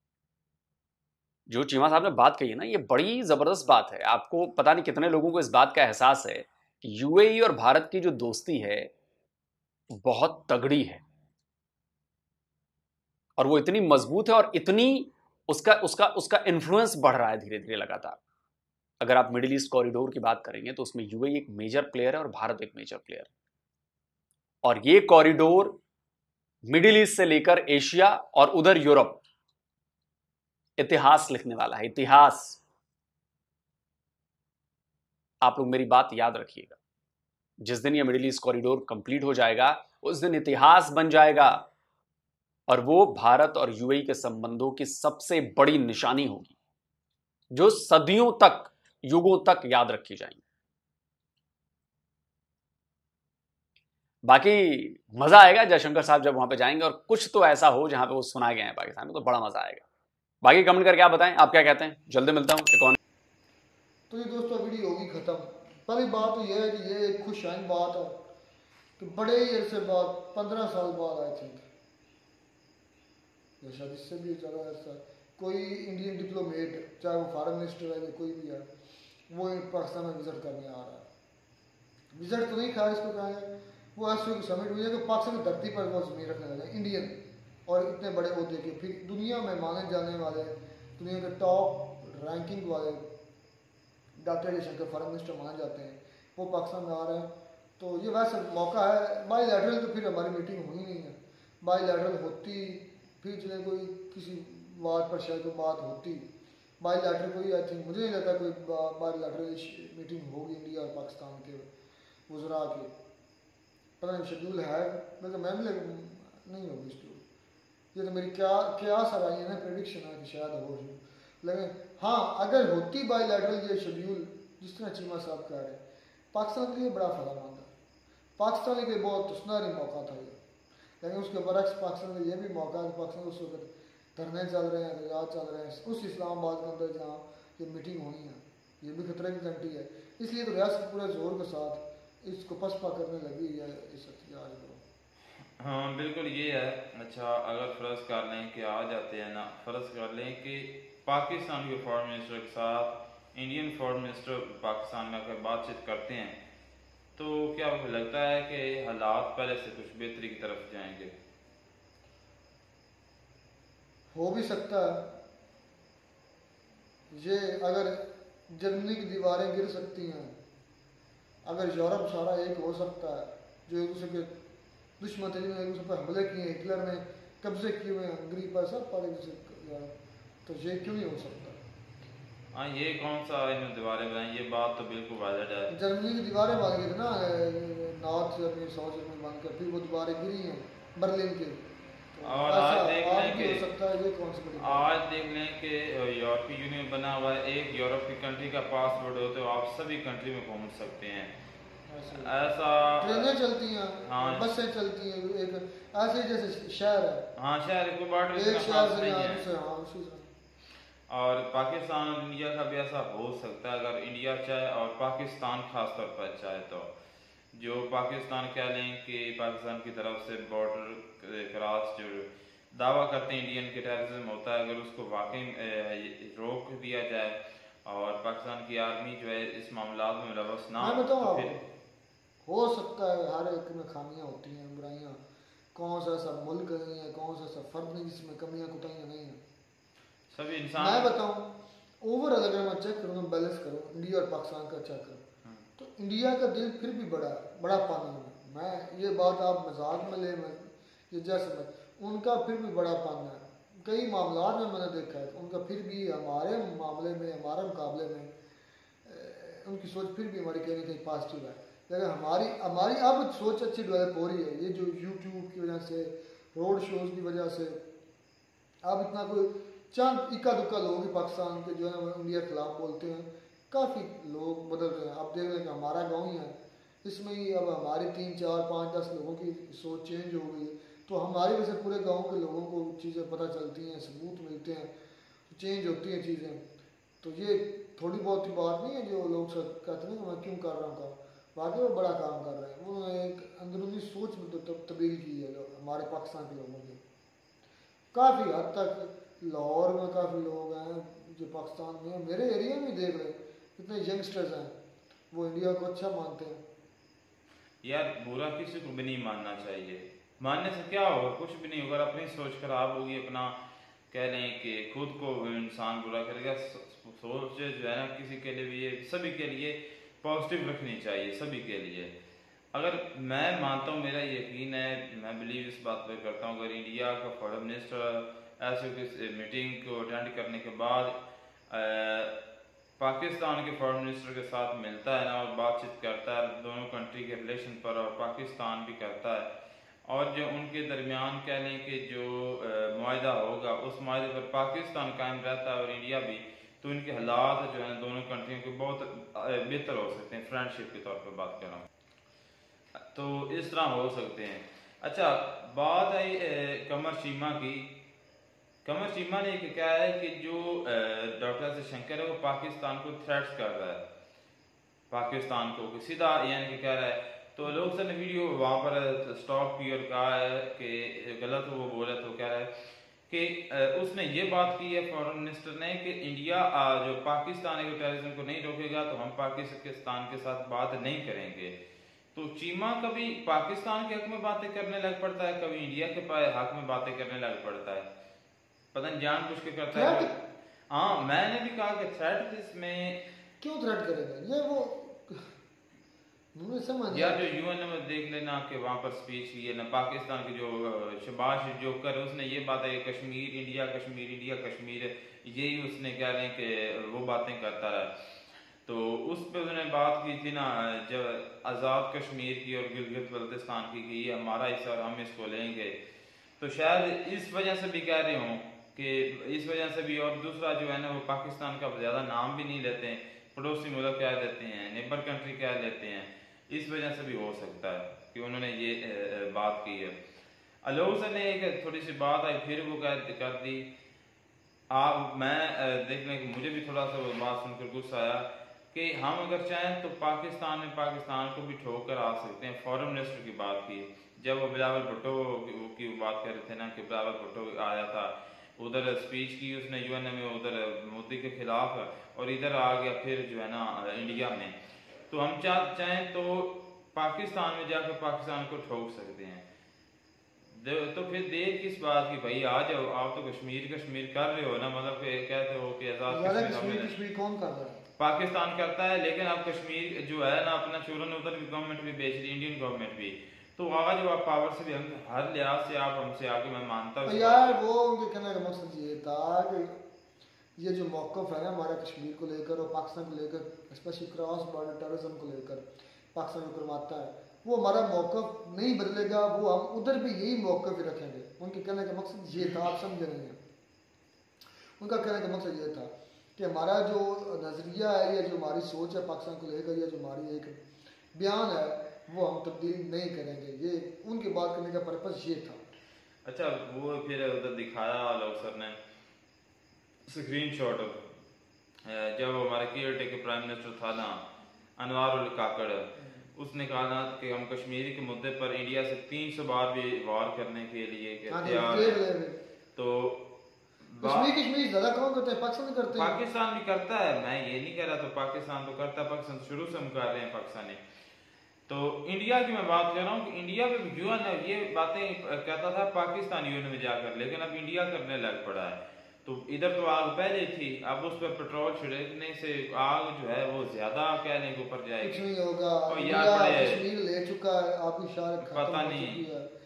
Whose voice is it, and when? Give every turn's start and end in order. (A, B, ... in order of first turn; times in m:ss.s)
0:01.5-0:08.9 A
0:10.0-0:11.0 A
0:13.4-0:18.2 A
0:19.0-0:23.3 A
0:24.6-0:25.8 A
0:26.7-0:29.2 A
0:30.8-0:32.6 A
0:35.4-0:36.8 A
0:37.6-0:41.7 A
0:42.7-0:46.5 A
0:47.5-0:50.4 A
0:54.2-0:59.8 A
1:00.4-1:03.0 A
1:04.1-1:08.2 B
1:09.0-1:11.7 B
1:13.6-1:18.6 B
1:19.3-1:21.0 B
1:22.1-1:33.0 B
1:34.2-1:46.3 B
1:46.8-1:51.7 B
1:52.3-1:52.9 B
1:54.0-1:57.2 B
1:57.9-2:05.8 B
2:06.3-2:07.7 B
2:08.4-2:10.4 B
2:11.0-2:24.8 B
2:25.6-2:36.4 C
2:37.2-2:41.1 C
2:44.1-2:45.1 B
2:47.1-2:50.3 B
2:51.4-2:54.3 B
2:55.0-2:59.9 B
3:00.4-3:01.6 B
3:02.5-3:05.7 C
3:05.7-3:14.9 B
3:12.2-3:13.6 C
3:14.6-3:21.3 C
3:21.9-3:22.3 B
3:22.1-3:23.3 C
3:23.0-3:27.2 B
3:24.0-3:24.5 C
3:27.4-3:29.4 C
3:28.3-3:30.3 B
3:31.1-3:36.9 C
3:37.5-3:51.5 C
3:50.8-3:51.6 B
3:52.4-3:55.2 B
3:55.7-3:59.4 B
4:00.3-4:01.1 C
4:00.8-4:01.5 B
4:02.0-4:05.2 B
4:05.8-4:18.3 B
4:19.0-4:27.8 B
4:28.8-4:44.9 B
4:45.5-4:46.6 B
4:47.2-4:57.0 B
4:58.1-5:04.7 B
5:05.3-5:06.6 B
5:07.8-5:13.6 C
5:14.1-5:22.1 C
5:22.7-5:31.1 C
5:31.7-5:32.3 C
5:33.0-5:39.5 C
5:40.1-5:51.8 C
5:53.1-5:57.9 C
5:58.8-6:04.0 C
6:05.1-6:12.7 C
6:13.3-6:21.7 C
6:22.3-6:28.1 C
6:28.9-6:33.2 C
6:29.9-6:30.3 B
6:33.6-6:35.5 B
6:36.6-6:37.5 B
6:37.1-6:48.1 C
6:48.8-6:56.0 C
6:56.6-7:10.2 C
7:10.8-7:13.9 C
7:14.9-7:34.7 C
7:35.3-7:39.6 C
7:40.7-7:47.1 C
7:46.3-7:48.0 B
7:48.2-7:57.8 C
7:57.2-8:00.0 B
8:00.8-8:13.6 B
8:15.0-8:20.8 B
8:21.3-8:25.8 B
8:26.4-8:29.0 C
8:30.3-8:31.2 C
8:32.0-8:34.4 C
8:35.0-8:42.2 C
8:41.5-8:42.6 B
8:43.0-8:43.4 C
8:44.0-8:44.6 C
8:44.2-8:46.3 B
8:46.1-8:51.0 C
8:51.9-9:05.4 C
9:05.2-9:09.7 B
9:06.1-9:07.0 C
9:08.6-9:09.5 C